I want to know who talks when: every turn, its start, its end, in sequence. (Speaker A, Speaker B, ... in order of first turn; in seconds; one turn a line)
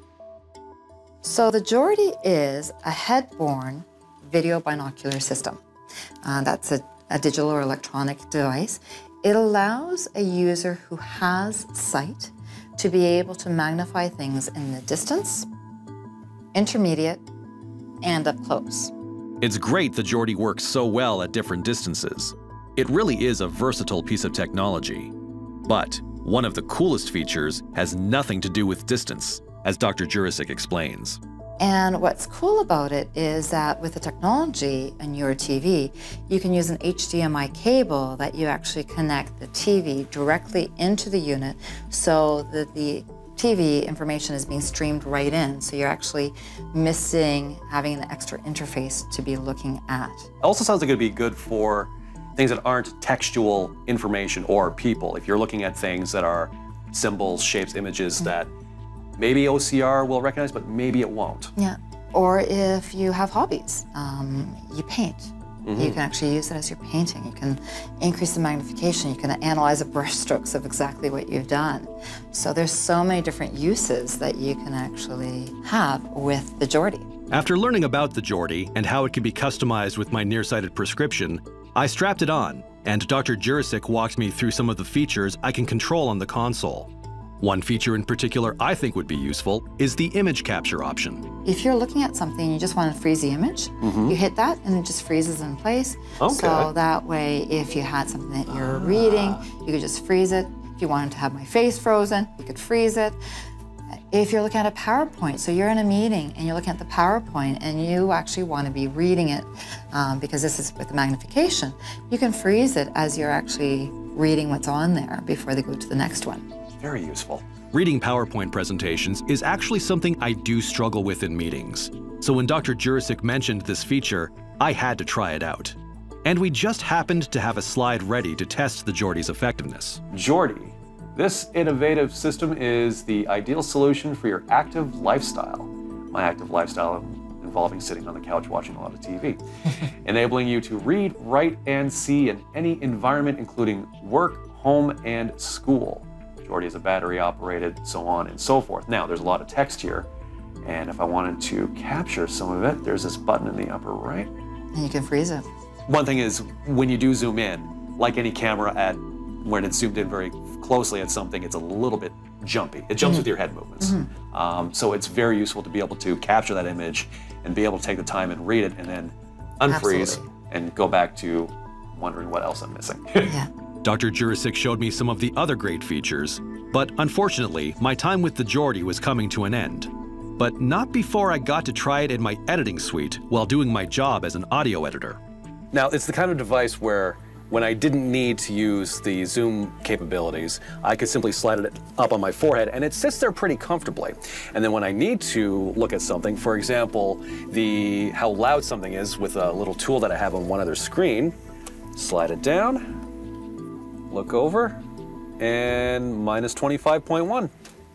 Speaker A: 1.2-5.6
Speaker A: 6.2-15.5
Speaker A: 16.5-17.2
Speaker A: 18.0-18.9
Speaker B: 19.4-25.1
Speaker B: 25.6-31.2
Speaker A: 31.6-50.3
Speaker C: 50.4-58.5
Speaker C: 59.2-61.5
Speaker A: 61.6-77.1
Speaker B: 77.3-86.9
Speaker B: 87.4-91.2
Speaker A: 91.4-103.2
Speaker C: 93.8-94.1
Speaker C: 96.2-96.6
Speaker C: 98.7-99.1
Speaker A: 104.1-116.5
Speaker C: 116.8-117.2
Speaker B: 117.0-130.1
Speaker C: 130.1-139.4
Speaker C: 140.1-150.1
Speaker C: 150.6-154.3
Speaker A: 154.7-155.5
Speaker C: 155.9-173.3
Speaker A: 163.0-164.2
Speaker A: 169.7-170.4
Speaker A: 173.2-173.5
Speaker B: 173.8-185.2
Speaker C: 185.7-192.8
Speaker B: 190.1-194.2
Speaker C: 194.6-195.3
Speaker B: 194.7-201.3
Speaker C: 199.8-201.3
Speaker C: 202.0-202.8
Speaker C: 204.1-204.7
Speaker B: 205.4-207.5
Speaker C: 206.3-206.6
Speaker C: 207.1-207.4